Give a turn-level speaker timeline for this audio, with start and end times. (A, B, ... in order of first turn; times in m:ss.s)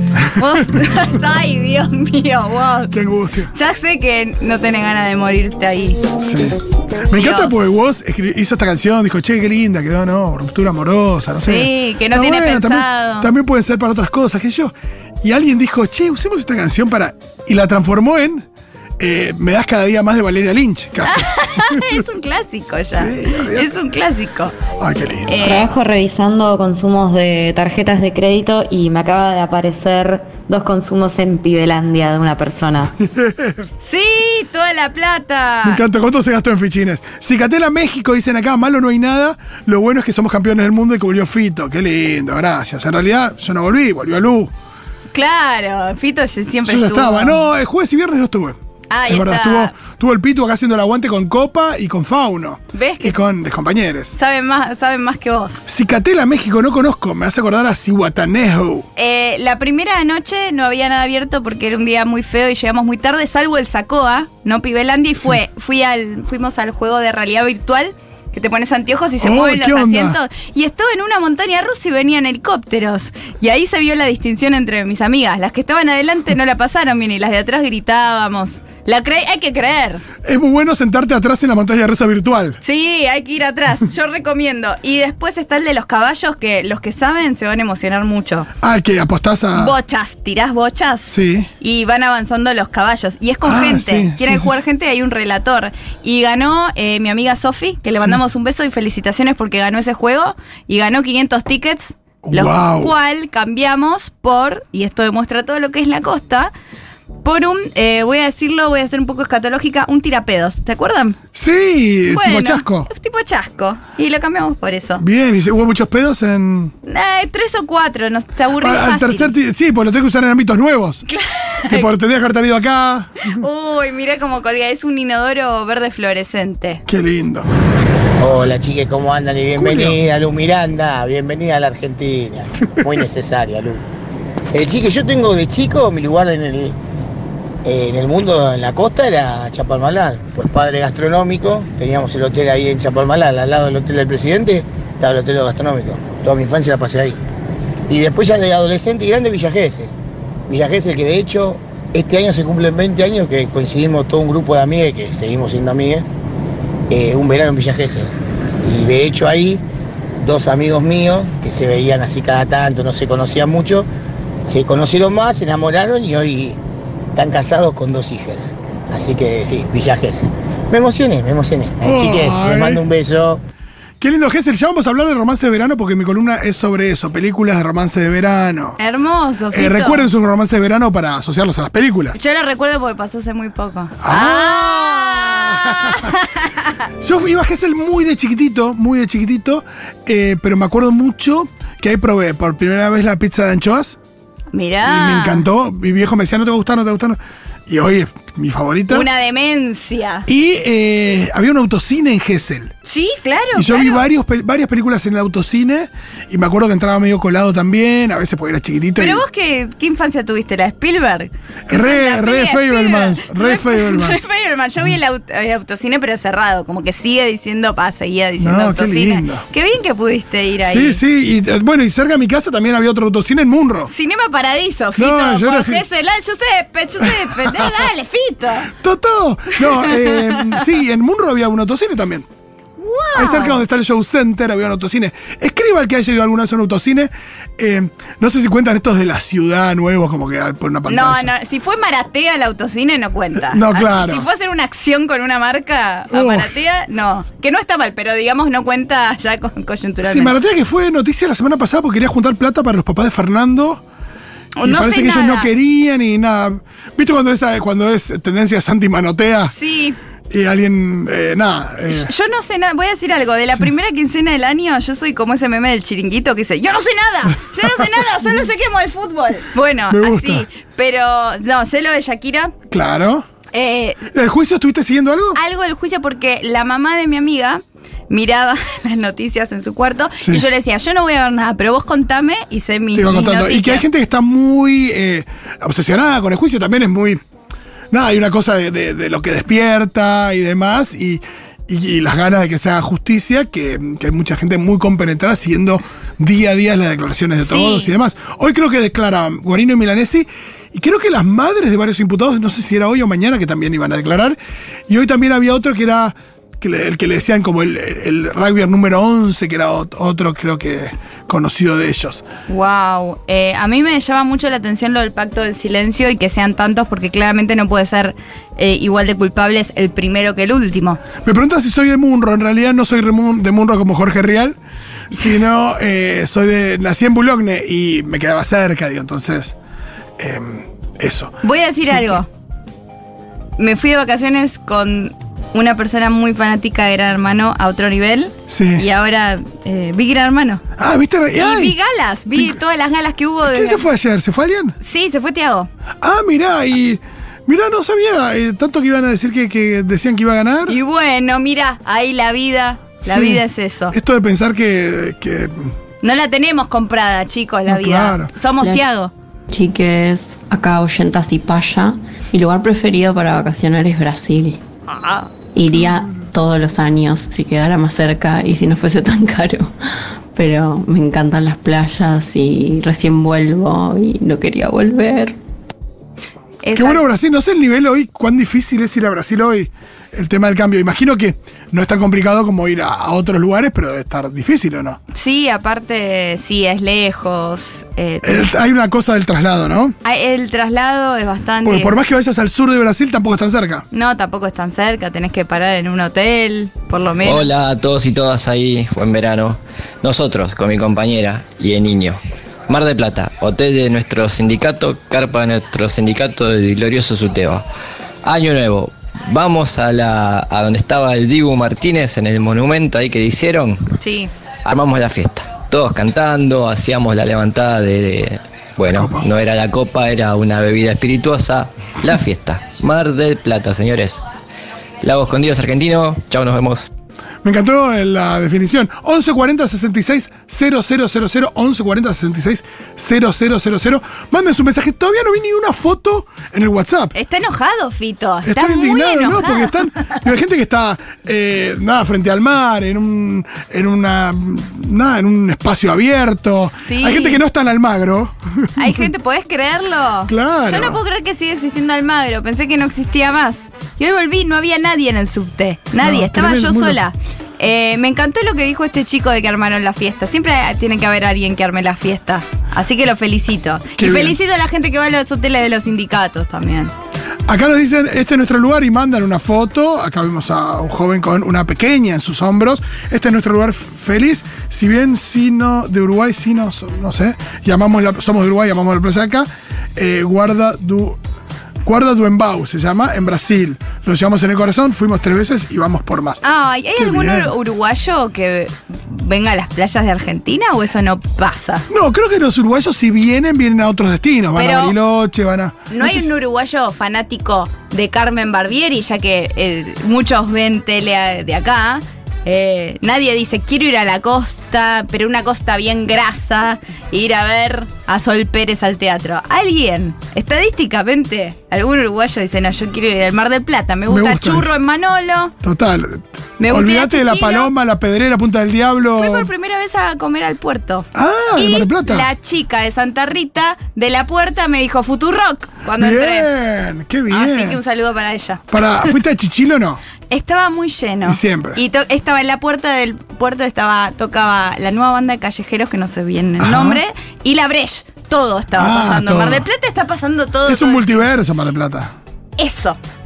0:00.3-0:03.0 A
0:02.9-0:03.5 B
0:03.5-0:06.0 A
0:06.2-0:06.6 B
0:07.1-0:18.5 B
0:07.1-0:07.6 A
0:11.4-0:13.3 A
0:19.0-0:22.0 B
0:21.0-0:24.6 A
0:22.9-0:23.7 B
0:24.8-0:25.6 B
0:25.3-0:25.7 A
0:25.4-0:32.9 C
0:33.1-0:33.6 B
0:33.8-0:35.8 A
0:35.6-0:44.5 B
0:45.1-0:47.4 A
0:46.7-0:48.6 B
0:48.9-0:49.7 A
0:49.1-0:54.2 B
0:52.7-0:53.2 A
0:54.2-0:55.6 A
0:55.7-0:58.9 B
0:59.0-1:20.0 A
1:09.2-1:10.2 B
1:20.2-1:22.6 B
1:22.6-1:28.5 A
1:28.6-1:29.7 B
1:29.6-1:46.5 A
1:31.1-1:31.5 B
1:33.4-1:34.5 B
1:42.2-1:42.9 B
1:47.2-1:51.2 A
1:51.4-1:52.9 B
1:52.1-1:55.0 A
1:55.0-1:56.7 B
1:56.8-1:59.3 A
1:58.6-2:01.1 B
2:01.1-2:01.9 A
2:01.7-2:03.3 B
2:03.3-2:06.8 A
2:06.9-2:07.5 B
2:08.2-2:13.8 D
2:09.6-2:10.0 B
2:14.5-2:16.8 D
2:17.6-2:27.2 D
2:27.9-2:29.9 D
2:30.5-2:36.1 D
2:36.9-2:38.1 D
2:38.6-2:39.6 D
2:40.2-2:43.9 D
2:44.4-2:46.6 D
2:47.2-2:53.4 D
2:51.8-2:52.8 B
2:54.0-2:58.8 B
2:58.8-3:00.1 A
2:59.5-3:02.2 B
3:02.1-3:06.7 A
3:04.0-3:06.1 B
3:07.0-3:14.0 B
3:14.5-3:15.4 A
3:14.8-3:19.1 B
3:18.9-3:20.3 A
3:20.3-3:22.7 B
3:22.8-3:24.0 A
3:23.6-3:29.2 B
3:29.0-3:41.0 A
3:31.7-3:34.2 B
3:38.4-3:39.4 B
3:40.6-3:43.9 B
3:43.9-3:48.7 A
3:45.0-3:45.8 B
3:48.8-3:52.3 B
3:49.7-3:50.6 A
3:52.8-3:53.6 A
3:53.2-4:01.3 B
4:00.9-4:10.4 A
4:03.5-4:04.3 B
4:06.1-4:06.5 B
4:10.0-4:13.8 B
4:14.6-4:15.5 A
4:14.6-4:19.5 B
4:19.5-4:20.0 A
4:20.3-4:22.1 B
4:21.9-4:32.5 A
4:29.9-4:30.4 B
4:32.7-4:33.3 B
4:33.5-4:34.1 A
4:34.1-4:35.4 B
4:35.3-4:43.8 A
4:43.0-4:47.2 B
4:47.9-5:04.4 B
4:57.4-4:57.9 A
5:04.9-5:12.2 B
5:12.5-5:21.0 A
5:21.2-5:24.6 B
5:25.1-5:29.6 B
5:30.2-5:32.2 B
5:31.4-5:32.3 A
5:33.6-5:40.6 A
5:38.5-5:38.8 B
5:40.8-5:41.8 B
5:41.4-5:43.8 A
5:43.5-5:44.8 B
5:44.8-5:45.7 A
5:46.0-5:50.8 B
5:50.7-5:54.0 A
5:53.0-5:55.7 B
5:56.0-5:59.1 A
5:57.7-5:58.3 B
5:58.6-5:58.9 E
5:59.5-6:04.6 E
6:05.0-6:05.2 A
6:05.5-6:09.7 E
6:10.3-6:15.4 E
6:16.6-6:17.0 A
6:16.8-6:25.0 B
6:25.1-6:28.5 A
6:28.2-6:30.0 B
6:30.0-6:32.0 A
6:31.6-6:33.9 B
6:33.9-6:37.5 A
6:37.2-6:47.6 F
6:48.2-6:54.0 F
6:54.0-6:54.3 A
6:54.6-7:04.2 F
6:58.9-6:59.2 B
7:05.0-7:06.9 F
7:07.4-7:17.2 B
7:17.2-7:20.2 A
7:18.4-7:28.9 B
7:26.8-7:27.4 A
7:28.8-7:46.9 A
7:30.3-7:31.0 B
7:36.0-7:37.0 B
7:44.0-7:44.4 B
7:47.5-8:01.2 B
8:01.8-8:06.4 B
8:06.4-8:11.9 A
8:07.0-8:07.5 B
8:11.9-8:16.3 B
8:14.6-8:15.0 A
8:15.9-8:35.5 A
8:34.1-8:34.7 B
8:35.6-8:39.5 B
8:36.6-8:37.7 A
8:39.2-8:46.5 A
8:41.2-8:42.3 B
8:46.0-8:47.8 B
8:47.3-8:49.1 A
8:48.7-8:50.0 B
8:50.3-9:01.1 A
8:51.2-8:51.8 B
8:56.6-8:57.0 B
8:58.8-8:59.6 B
9:00.7-9:02.1 B
9:02.6-9:03.0 A